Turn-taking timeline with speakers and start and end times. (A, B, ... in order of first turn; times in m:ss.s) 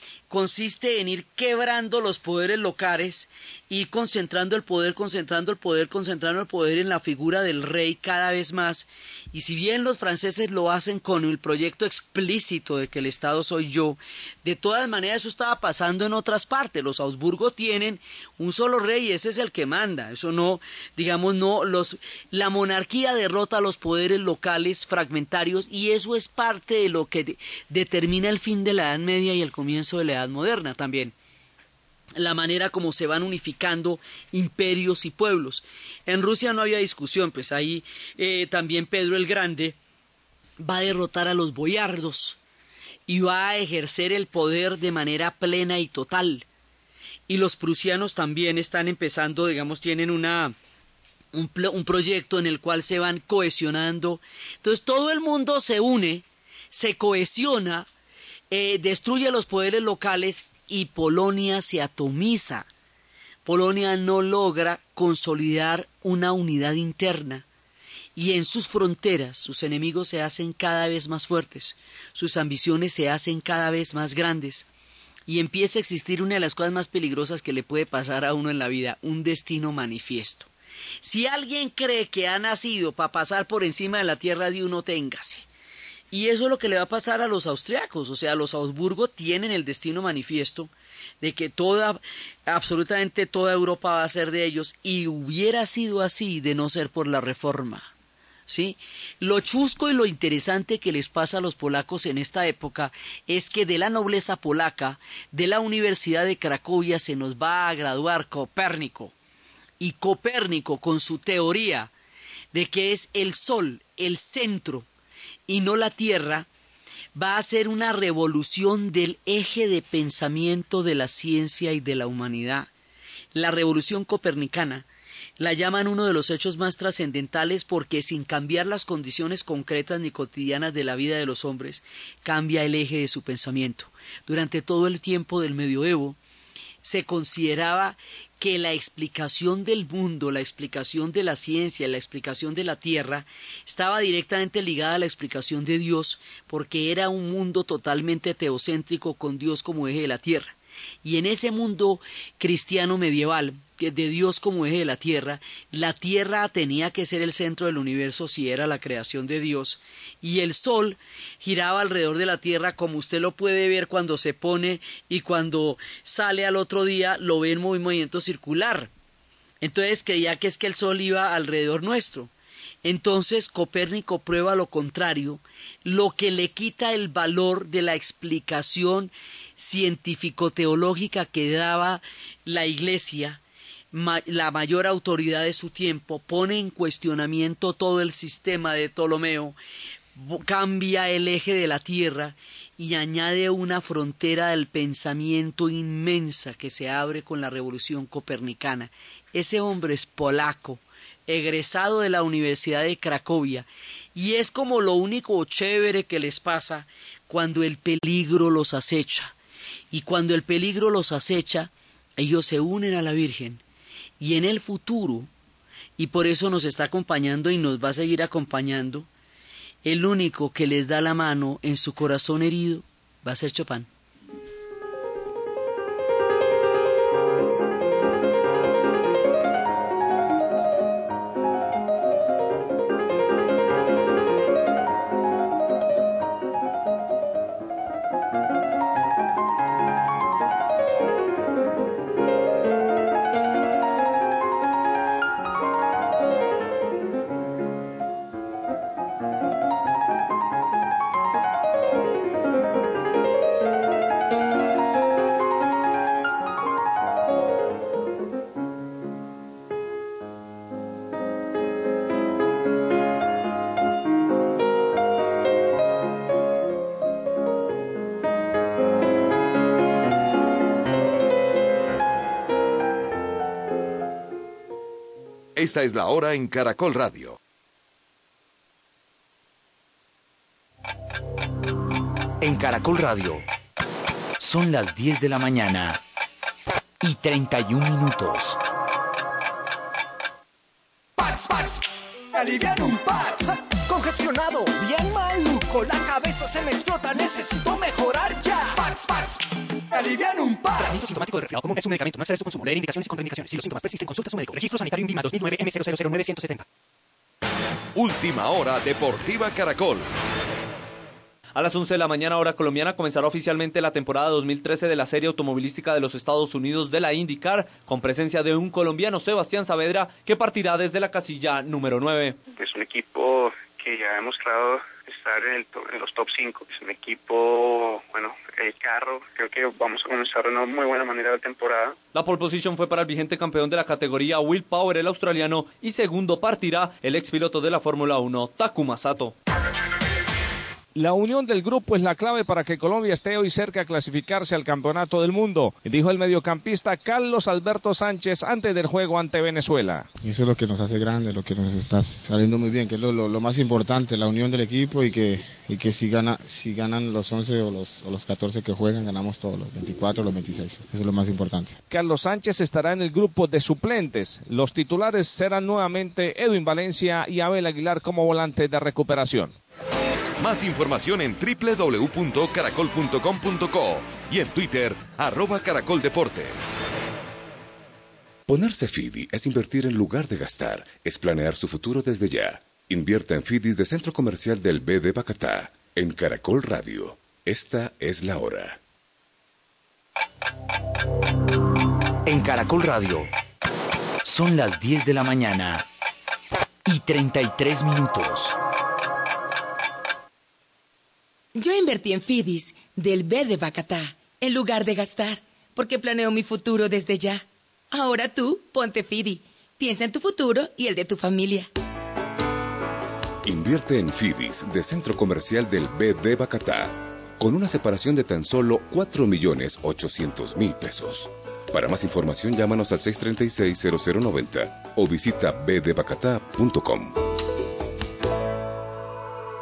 0:00.3-0:31.1 A
0:32.2-0:39.8 A
0:40.6-0:42.4 A
0:43.1-0:46.5 A
0:47.3-0:50.6 A
0:51.3-0:57.9 A
0:58.5-1:02.7 A
1:03.5-1:07.4 A
1:08.2-1:14.7 A
1:15.3-1:20.5 A
1:21.0-1:25.5 A
1:26.1-1:37.9 A
1:38.5-1:49.1 A
1:49.8-1:51.9 A
1:52.5-1:54.9 A
1:55.5-1:56.5 A
1:57.2-2:02.7 A
2:03.3-2:04.9 A
2:05.4-2:16.2 A
2:16.8-2:48.9 A
2:49.6-2:52.3 A
2:52.8-3:03.4 A
3:03.9-3:09.6 A
3:10.2-3:29.4 A
3:29.9-3:33.6 A
3:34.2-3:35.3 A
3:36.0-3:39.1 A
3:39.8-3:43.9 A
4:35.6-4:37.4 B
4:42.4-4:43.5 C
4:44.4-4:46.0 C
4:47.0-4:48.6 C
4:51.2-4:51.8 D
4:52.3-5:00.9 D
5:00.8-5:06.6 E
5:08.0-5:10.1 B
5:11.6-5:22.4 F
5:22.6-5:32.0 G
5:32.2-5:39.4 F
5:41.0-5:50.1 H
5:50.2-6:01.8 I
6:01.9-6:09.6 H
6:10.4-6:16.7 B
6:18.5-6:28.8 J
6:32.3-6:33.3 C
6:34.2-6:35.8 C
6:36.8-6:38.6 C
6:41.5-6:51.7 K
6:53.4-7:07.2 J